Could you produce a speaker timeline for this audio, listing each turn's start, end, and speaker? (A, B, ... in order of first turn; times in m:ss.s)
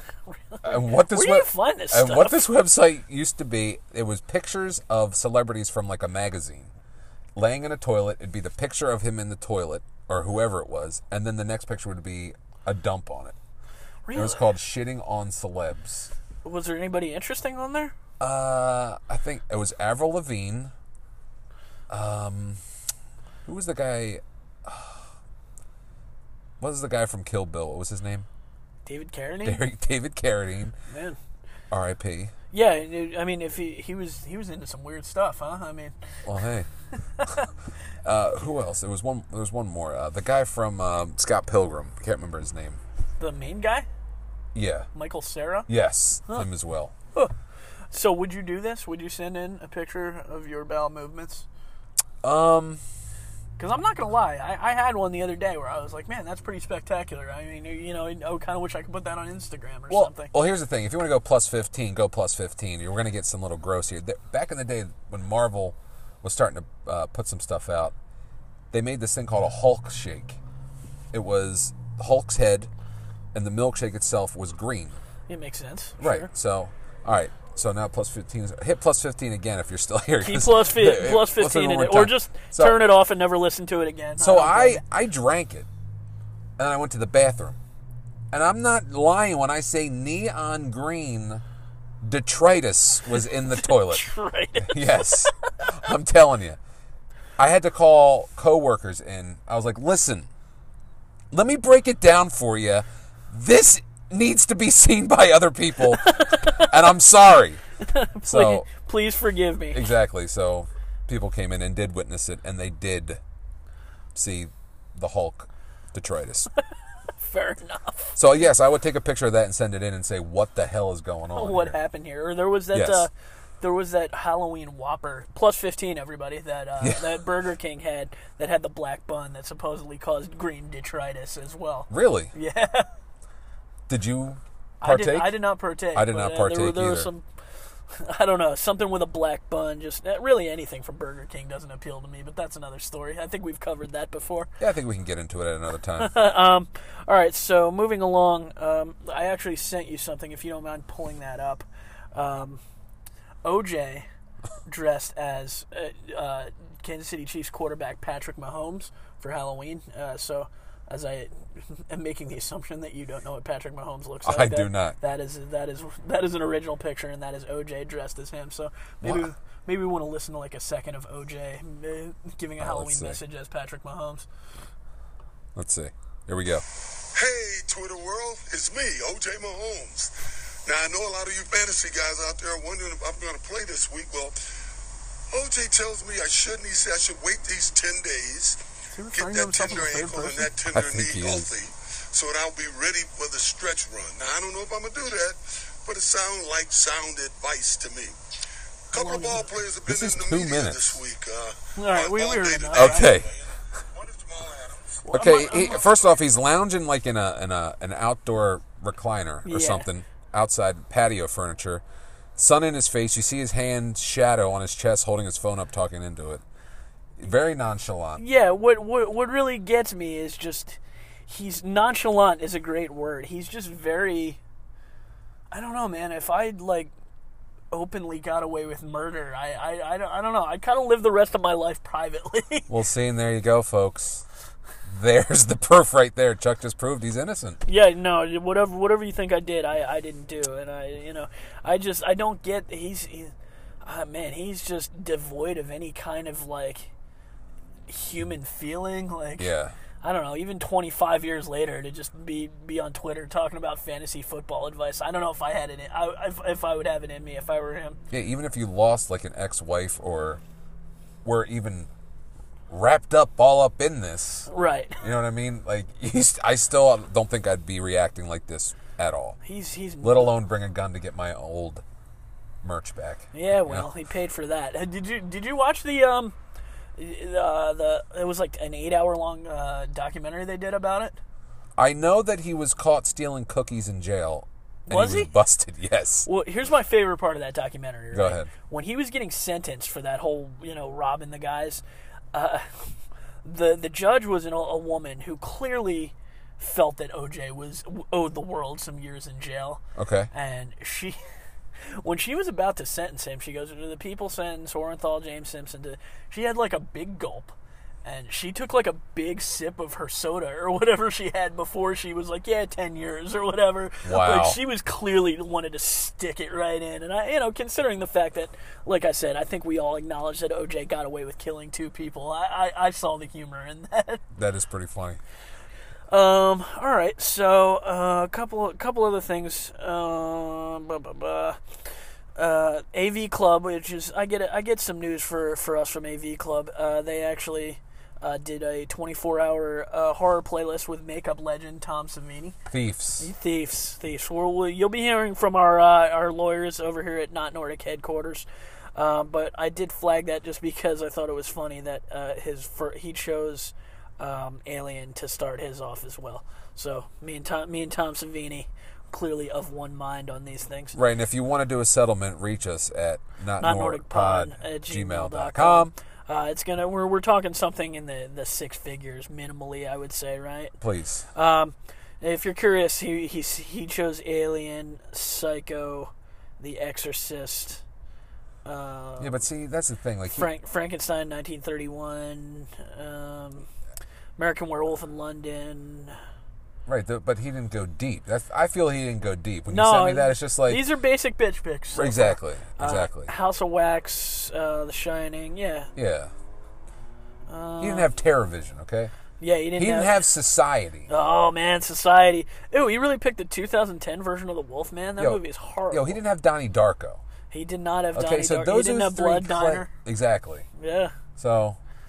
0:00.3-0:02.4 A
0:00.6-0:06.7 B
0:07.4-0:13.4 B
0:14.1-0:14.4 A
0:14.1-0:16.1 B
0:16.4-0:18.0 A
0:18.2-0:20.7 B
0:21.9-0:22.6 B
0:23.5-0:25.1 B
0:26.6-0:28.3 B
0:28.9-0:29.6 A
0:29.4-0:30.8 B
0:30.9-0:31.2 A
0:31.7-0:32.3 B
0:32.5-0:36.0 A
0:36.2-0:36.7 B
0:37.2-0:37.5 A
0:38.0-0:42.8 B
0:43.2-0:43.9 A
0:44.5-0:44.9 B
0:44.9-0:45.7 A
0:45.7-0:46.9 B
0:47.9-0:51.5 A
0:52.2-0:52.8 B
0:53.6-1:00.3 A
0:59.9-1:07.9 B
1:08.7-1:10.4 B
1:11.1-1:12.7 B
1:13.3-1:15.0 B
1:15.3-1:16.3 A
1:16.0-1:22.8 B
1:20.2-1:24.8 A
1:24.2-1:25.7 B
1:26.6-1:27.6 B
1:28.3-1:31.4 B
1:32.0-1:36.6 B
1:33.4-1:35.5 A
1:37.4-1:40.3 B
1:41.3-1:47.6 B
1:46.0-1:46.7 A
1:47.8-1:49.9 A
1:48.2-1:48.7 B
1:49.7-1:53.2 B
1:54.2-1:56.5 B
1:57.2-1:58.2 A
1:58.2-2:01.8 B
2:01.3-2:12.9 A
2:02.7-2:03.1 B
2:06.8-2:07.2 B
2:11.9-2:12.3 B
2:13.9-2:17.1 B
2:14.8-2:17.2 A
2:17.9-2:24.5 A
2:24.6-2:26.1 B
2:26.0-2:32.6 A
2:33.4-2:34.1 A
2:34.7-2:54.3 A
2:44.2-2:45.0 B
2:49.0-2:49.3 B
2:52.6-2:53.2 B
2:55.6-2:56.6 B
2:57.1-3:04.4 C
3:05.3-3:08.6 C
3:08.9-3:10.5 A
3:09.1-3:18.2 C
3:10.7-3:11.5 B
3:18.9-3:25.1 C
3:18.9-3:19.5 A
3:19.9-3:21.0 B
3:21.8-3:23.2 A
3:22.7-3:23.3 B
3:25.0-3:25.9 A
3:25.1-3:31.8 B
3:29.4-3:29.9 A
3:32.4-3:36.4 B
3:37.2-3:38.2 B
3:38.2-3:44.4 A
3:45.5-3:46.9 A
3:47.7-3:52.7 A
3:52.7-3:54.2 B
3:54.9-3:57.6 B
3:57.6-4:03.3 A
4:03.8-4:06.9 A
4:07.9-4:18.0 A
4:09.4-4:09.8 B
4:18.1-4:20.4 B
4:21.2-4:21.9 B
4:22.7-4:24.5 B
4:24.5-4:25.0 A
4:25.0-4:29.4 B
4:29.4-4:30.4 A
4:30.0-4:31.8 B
4:32.6-4:33.9 B
4:33.3-4:36.4 A
4:37.0-4:41.2 A
4:41.8-4:46.3 B
4:44.9-4:45.3 A
4:46.3-4:52.8 A
4:48.1-4:48.5 B
4:53.4-5:01.2 A
5:00.0-5:00.3 B
5:01.8-5:24.2 A
5:14.0-5:14.6 B
5:24.4-5:25.2 B
5:26.1-5:31.6 A
5:32.4-5:42.6 A
5:42.7-5:43.3 B
5:43.2-6:01.0 A
6:01.0-6:06.0 B
6:03.6-6:10.7 A
6:10.8-6:11.3 B
6:11.3-6:17.8 A
6:18.6-6:19.4 A
6:19.2-6:20.5 B
6:20.3-6:23.7 A
6:24.4-6:26.2 A
6:26.9-6:30.8 B
6:29.7-6:35.9 A
6:31.9-6:33.3 B
6:36.0-6:36.3 B
6:37.5-6:38.1 A
6:37.8-6:39.1 B
6:39.4-6:40.2 A
6:39.8-6:41.1 B
6:41.1-6:46.2 A
6:45.2-6:47.2 B
6:47.5-6:49.9 A
6:48.1-6:50.7 B
6:50.8-6:51.1 A
6:51.4-6:51.8 B